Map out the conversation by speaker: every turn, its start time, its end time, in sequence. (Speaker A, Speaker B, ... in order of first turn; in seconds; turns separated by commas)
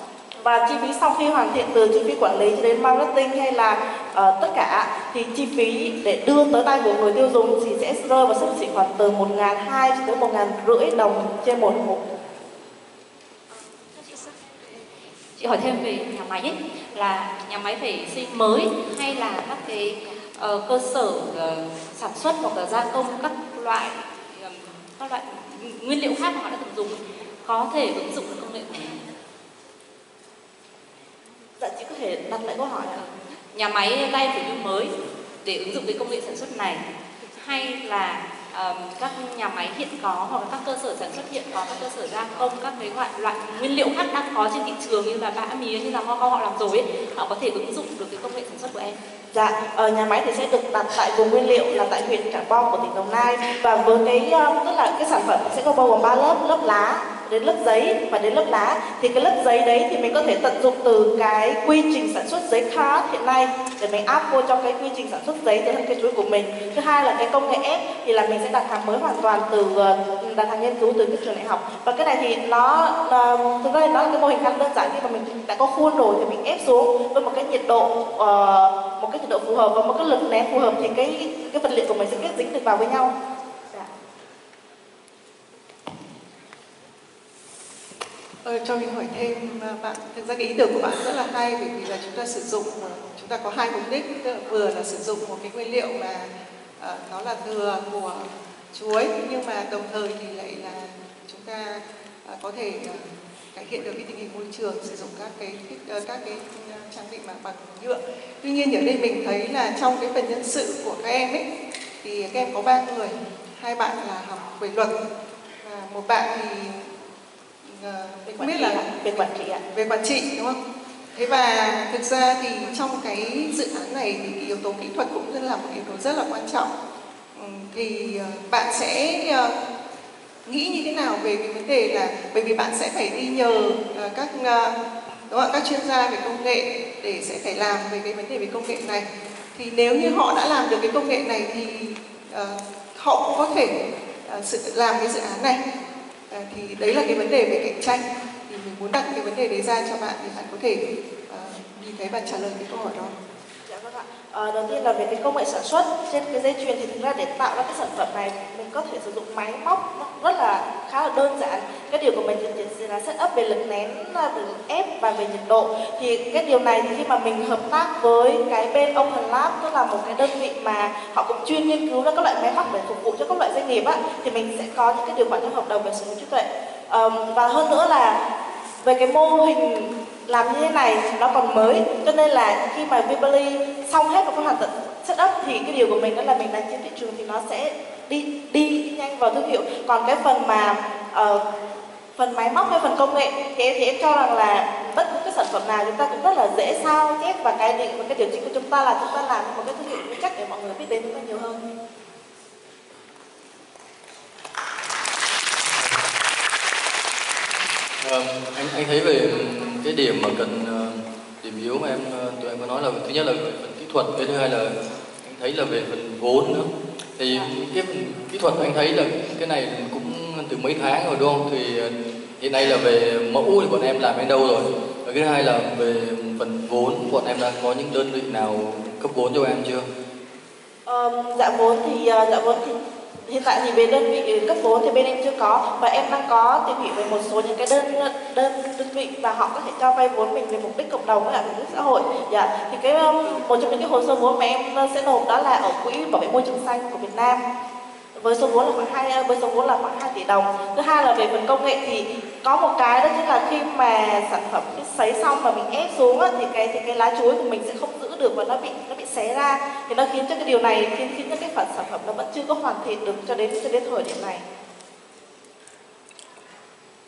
Speaker A: 0.4-12.0, Speaker B: 15.4-29.0, Speaker A: 31.6-33.0, Speaker B: 33.0-34.9, Speaker B: 35.4-49.0, Speaker A: 49.3-83.1, Speaker C: 88.4-111.5, Speaker C: 112.0-114.9, Speaker C: 115.6-116.9, Speaker C: 117.7-118.8, Speaker A: 118.2-119.6, Speaker C: 119.7-120.6, Speaker C: 121.1-126.7, Speaker C: 127.3-129.6, Speaker C: 130.5-134.8, Speaker C: 135.3-145.6, Speaker C: 146.3-153.2, Speaker A: 153.7-178.2, Speaker A: 178.8-191.4, Speaker A: 192.2-201.6, Speaker D: 205.7-206.0, Speaker D: 208.0-229.9, Speaker A: 230.9-247.4, Speaker A: 248.2-264.4